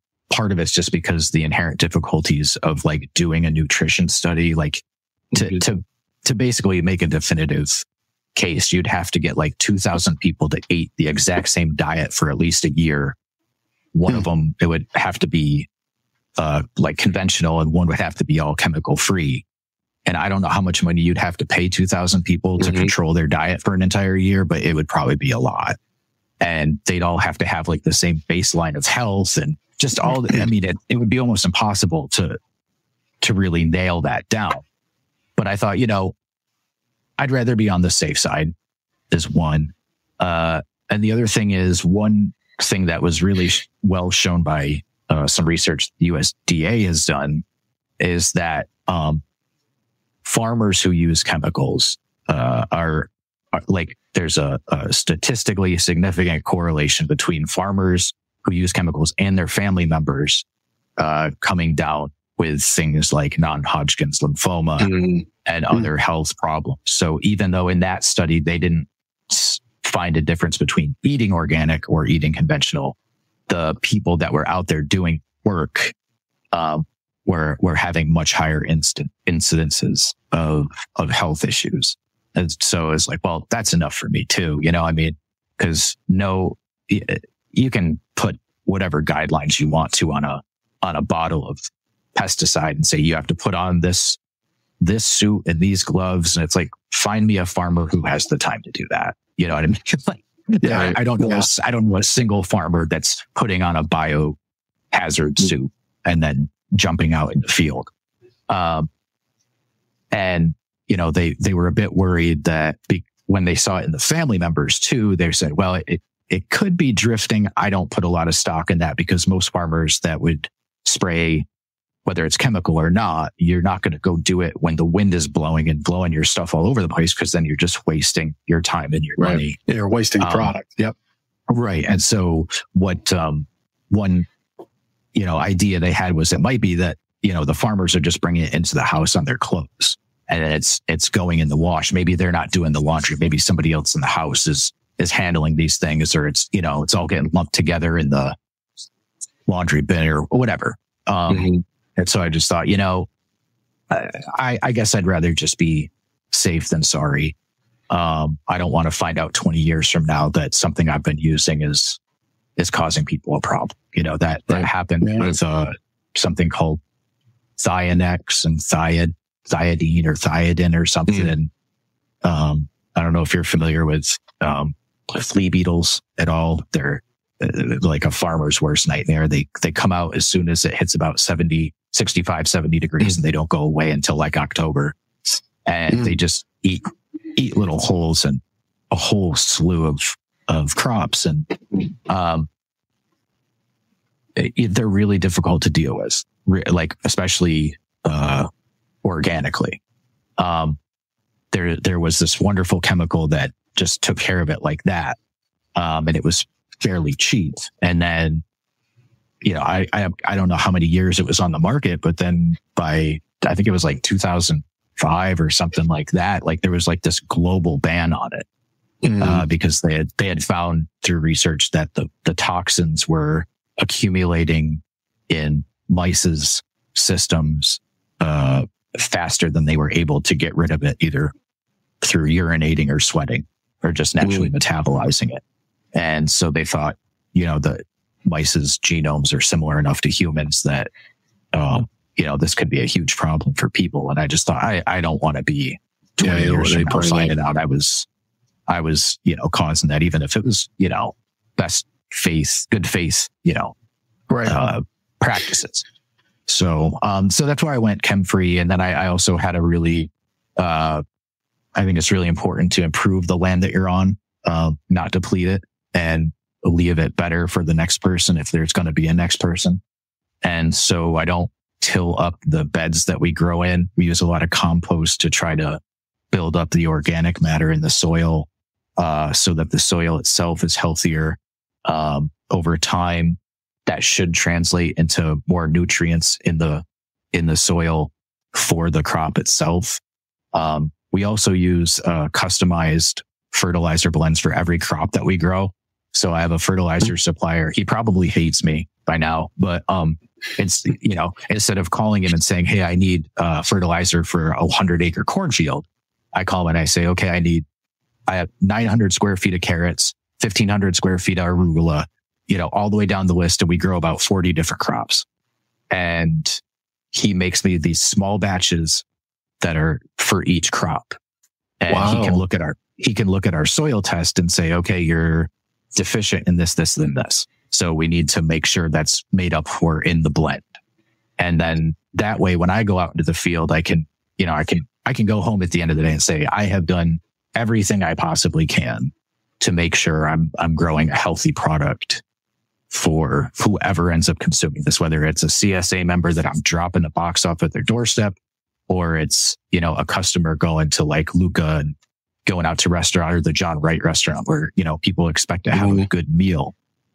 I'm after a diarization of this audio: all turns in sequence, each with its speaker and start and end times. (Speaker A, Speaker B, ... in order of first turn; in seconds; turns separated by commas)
Speaker A: 0.3-13.2, Speaker A: 13.9-15.7, Speaker A: 16.4-19.4, Speaker A: 20.1-25.8, Speaker B: 22.6-22.9, Speaker A: 26.4-32.4, Speaker A: 33.2-34.6, Speaker A: 35.4-36.1, Speaker A: 37.2-38.5, Speaker A: 39.1-47.4, Speaker A: 48.0-49.2, Speaker A: 50.2-60.4, Speaker A: 61.0-73.0, Speaker B: 64.8-65.2, Speaker A: 73.5-76.0, Speaker A: 76.5-94.2, Speaker A: 94.8-104.4, Speaker C: 100.6-101.5, Speaker A: 104.9-107.9, Speaker A: 108.5-108.9, Speaker A: 110.1-121.5, Speaker A: 122.0-129.6, Speaker C: 129.2-130.9, Speaker A: 130.2-130.5, Speaker A: 131.5-134.3, Speaker A: 135.1-148.4, Speaker A: 149.5-153.1, Speaker A: 153.9-157.3, Speaker A: 157.9-162.0, Speaker A: 162.6-166.8, Speaker C: 165.0-165.3, Speaker A: 167.6-171.5, Speaker A: 172.2-185.0, Speaker A: 185.7-192.5, Speaker A: 194.3-198.5, Speaker A: 199.0-199.8, Speaker A: 200.4-200.8, Speaker A: 201.5-205.2, Speaker A: 205.8-208.4, Speaker A: 209.4-218.5, Speaker B: 219.0-219.4, Speaker A: 219.2-231.3, Speaker A: 232.0-235.4, Speaker A: 235.9-240.9, Speaker A: 241.5-248.1, Speaker B: 246.2-247.3, Speaker A: 248.7-253.8, Speaker C: 254.3-254.6, Speaker A: 254.5-255.8, Speaker A: 256.5-261.0, Speaker A: 261.8-269.8, Speaker A: 270.4-275.8, Speaker A: 276.3-290.0, Speaker A: 290.5-307.6, Speaker A: 308.3-315.3, Speaker A: 315.9-316.6, Speaker A: 317.1-319.0, Speaker A: 319.6-321.2, Speaker A: 321.8-330.8, Speaker B: 321.9-322.4, Speaker A: 331.4-342.2, Speaker A: 342.9-348.4, Speaker A: 348.9-356.7, Speaker B: 355.8-356.1